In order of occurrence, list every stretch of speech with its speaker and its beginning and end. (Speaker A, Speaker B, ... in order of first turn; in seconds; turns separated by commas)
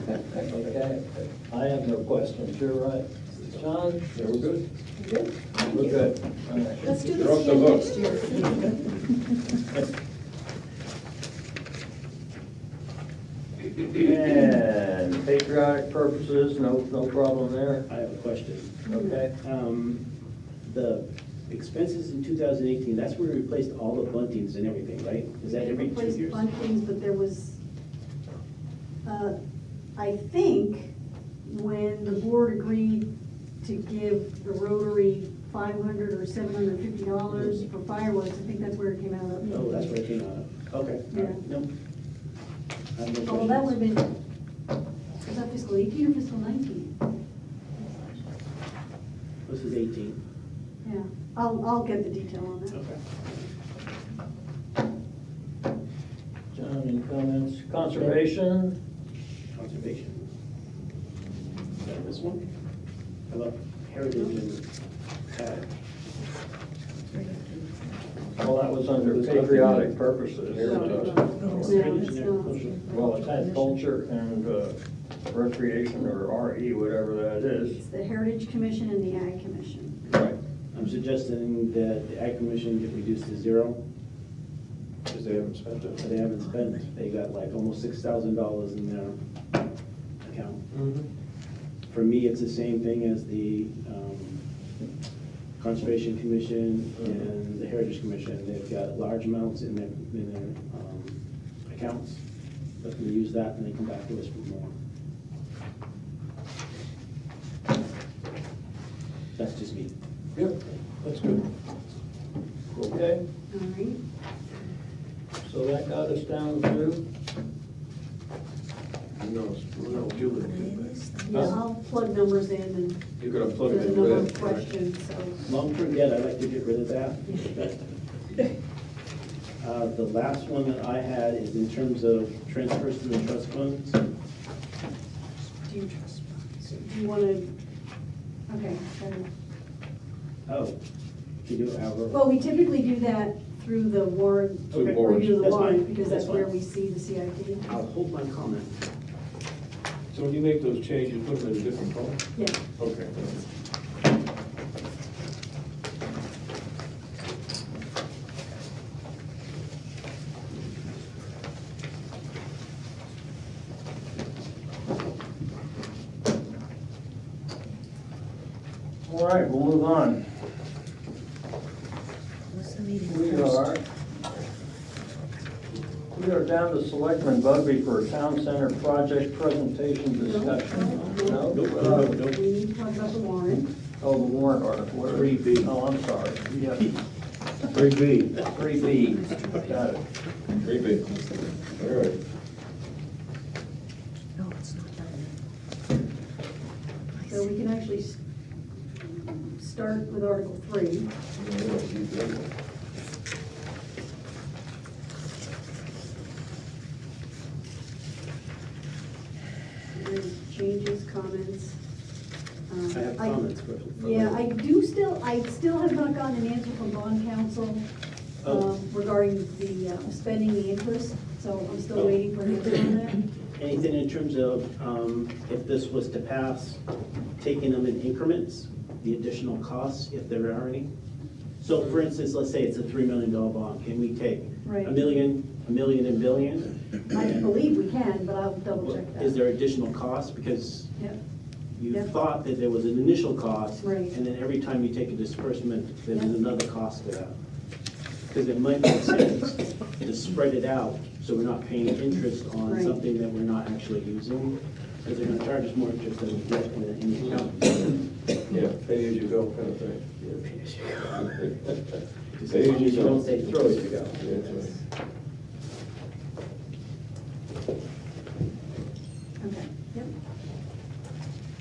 Speaker A: 0.2-4.6, Speaker B: 4.2-4.5, Speaker C: 5.0-6.0, Speaker A: 5.6-7.0, Speaker C: 6.8-8.8, Speaker B: 7.0-8.3, Speaker A: 13.7-17.9, Speaker D: 17.9-18.8, Speaker C: 18.9-19.2, Speaker A: 18.9-19.3, Speaker D: 19.4-20.0, Speaker D: 20.6-26.4, Speaker C: 25.4-27.6, Speaker C: 29.0-29.3, Speaker C: 29.9-30.9, Speaker C: 31.4-33.0, Speaker C: 33.6-39.9, Speaker D: 39.5-41.7, Speaker C: 41.1-41.4, Speaker D: 43.0-43.8, Speaker C: 43.2-44.1, Speaker C: 45.2-46.9, Speaker D: 49.5-50.2, Speaker C: 50.8-52.8, Speaker D: 52.7-53.0, Speaker A: 56.5-58.7, Speaker D: 59.5-60.2, Speaker D: 61.8-62.4, Speaker D: 63.3-64.6, Speaker D: 65.3-65.7, Speaker E: 67.0-68.4, Speaker A: 68.4-71.2, Speaker B: 69.1-69.6, Speaker D: 69.1-69.5, Speaker B: 70.5-71.9, Speaker C: 70.5-73.1, Speaker D: 71.0-72.8, Speaker E: 71.2-73.8, Speaker A: 72.9-74.8, Speaker A: 75.3-77.8, Speaker C: 77.7-80.0, Speaker A: 80.0-80.3, Speaker D: 80.7-83.8, Speaker B: 85.1-86.0, Speaker D: 86.0-89.2, Speaker E: 86.4-86.8, Speaker D: 90.2-90.7, Speaker B: 90.7-91.0, Speaker D: 91.9-94.4, Speaker D: 95.6-102.2, Speaker D: 102.8-104.7, Speaker D: 109.3-109.9, Speaker B: 110.3-111.5, Speaker A: 112.8-113.2, Speaker C: 113.5-114.0, Speaker A: 115.4-117.0, Speaker B: 119.2-120.9, Speaker E: 119.9-121.6, Speaker C: 121.2-123.0, Speaker B: 123.2-124.7, Speaker C: 123.6-125.4, Speaker D: 125.4-127.7, Speaker D: 129.6-134.0, Speaker C: 135.7-137.5, Speaker C: 138.5-139.2, Speaker D: 140.5-140.7, Speaker D: 141.4-142.2, Speaker C: 142.1-147.7, Speaker B: 144.7-145.5, Speaker D: 144.7-146.4, Speaker D: 147.6-148.7, Speaker B: 150.1-152.2, Speaker B: 152.8-153.4, Speaker A: 169.0-170.2, Speaker E: 172.5-173.7, Speaker A: 173.0-173.8, Speaker A: 176.1-182.1, Speaker C: 180.1-183.7, Speaker E: 180.9-181.2, Speaker B: 181.3-182.3, Speaker A: 184.0-186.9, Speaker B: 185.1-185.7, Speaker B: 187.7-188.4, Speaker A: 188.4-190.0, Speaker E: 188.8-189.9, Speaker E: 190.5-191.9, Speaker B: 190.6-191.1, Speaker B: 191.8-192.2, Speaker E: 194.4-195.3, Speaker E: 197.1-197.4, Speaker C: 197.2-198.2, Speaker C: 199.0-201.1, Speaker B: 201.4-202.5, Speaker C: 209.9-211.8, Speaker C: 212.7-213.4, Speaker D: 212.9-214.4, Speaker C: 214.0-217.8, Speaker C: 218.4-223.2, Speaker D: 223.6-226.8, Speaker D: 227.4-230.9, Speaker D: 231.6-236.7, Speaker C: 234.6-235.0, Speaker C: 237.1-239.3, Speaker D: 238.8-240.9, Speaker D: 241.8-247.3, Speaker C: 243.8-244.1, Speaker D: 248.3-258.0, Speaker C: 252.7-253.0, Speaker B: 258.5-260.1, Speaker D: 260.2-261.5, Speaker B: 261.2-261.7, Speaker D: 262.3-264.7, Speaker B: 262.5-264.6, Speaker C: 269.4-270.1